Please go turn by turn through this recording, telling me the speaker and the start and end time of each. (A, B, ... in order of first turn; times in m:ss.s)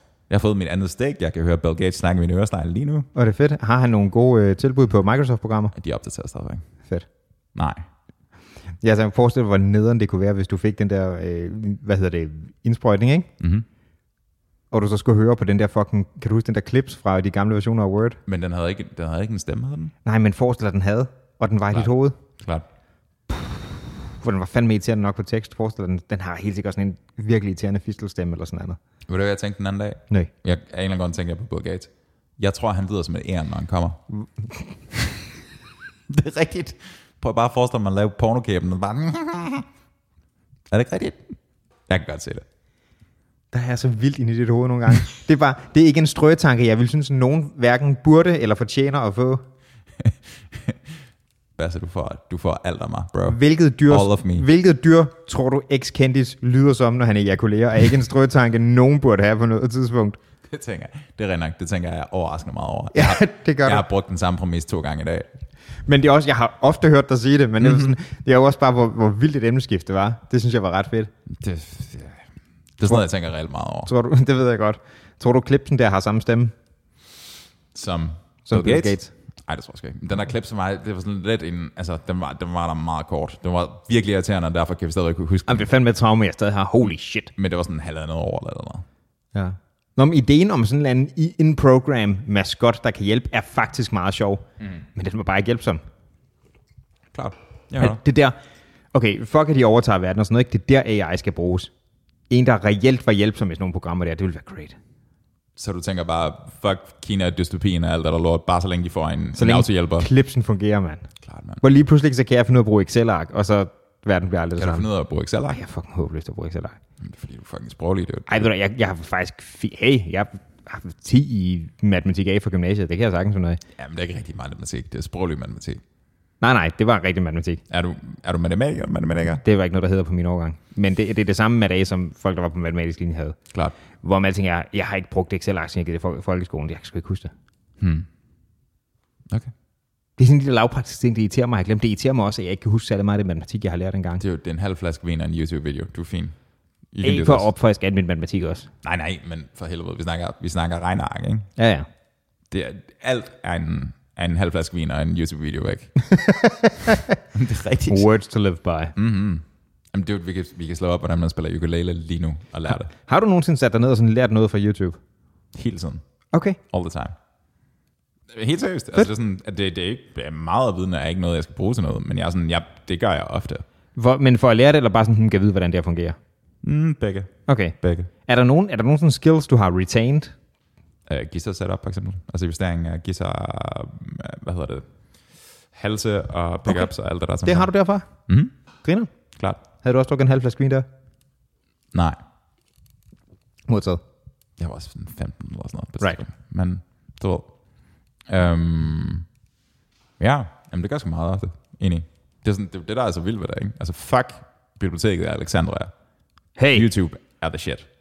0:00.3-0:03.1 A
0:03.1-0:05.7 B
0:05.7-0:06.6 A
0:07.5-0:07.8 A
0:08.8-0:13.3 B
0:13.4-0:13.6 A
0:14.7-0:18.2 B
0:18.2-0:19.9 A
0:20.0-0:22.2 B
0:21.7-0:22.6 A
0:23.3-0:28.8 B
0:29.1-0:34.0 A
0:36.1-0:39.6 A
0:40.7-0:41.2 A
0:41.9-0:42.4 A
0:43.5-0:49.4 B
0:50.0-0:50.8 A
0:51.6-0:54.4 A
0:53.3-1:00.2 B
1:00.5-1:05.3 A
1:02.9-1:03.8 B
1:05.8-1:11.1 B
1:07.6-1:07.9 A
1:11.3-1:12.2 A
1:12.8-1:13.9 A
1:13.8-1:16.5 B
1:17.7-1:25.7 A
1:18.4-1:19.1 B
1:25.5-1:27.3 B
1:27.4-1:28.8 A
1:29.3-1:35.8 B
1:37.1-1:38.0 A
1:37.8-1:38.4 B
1:38.9-1:41.7 B
1:42.3-1:44.8 B
1:45.6-1:50.1 A
1:49.4-1:51.1 B
1:51.2-1:51.6 A
1:51.6-1:54.9 B
1:54.6-1:55.6 A
1:55.5-1:56.8 B
1:57.0-1:58.5 A
1:58.3-2:03.6 B
2:03.8-2:05.8 A
2:06.4-2:07.6 B
2:07.7-2:09.4 A
2:09.4-2:13.4 B
2:14.0-2:17.3 B
2:17.8-2:18.1 A
2:20.2-2:24.2 B
2:24.2-2:26.4 A
2:26.9-2:27.5 A
2:27.0-2:28.7 B
2:28.8-2:31.5 A
2:31.6-2:31.9 B
2:32.5-2:36.0 A
2:36.1-2:37.1 B
2:37.3-2:38.1 A
2:37.9-2:38.9 B
2:39.0-2:42.9 A
2:43.0-2:45.0 B
2:45.5-2:46.0 A
2:46.3-2:46.6 B
2:46.7-2:47.2 A
2:48.3-2:53.6 A
2:53.9-2:56.2 B
2:56.6-2:58.1 A
2:57.5-3:00.3 B
3:01.1-3:04.8 A
3:05.7-3:07.7 A
3:06.6-3:06.9 B
3:07.4-3:08.1 B
3:08.3-3:08.5 A
3:08.8-3:09.1 B
3:09.7-3:10.8 B
3:11.9-3:12.2 A
3:13.7-3:14.0 B
3:14.6-3:17.5 A
3:18.3-3:19.2 A
3:20.2-3:25.9 A
3:26.6-3:26.9 B
3:26.7-3:27.9 A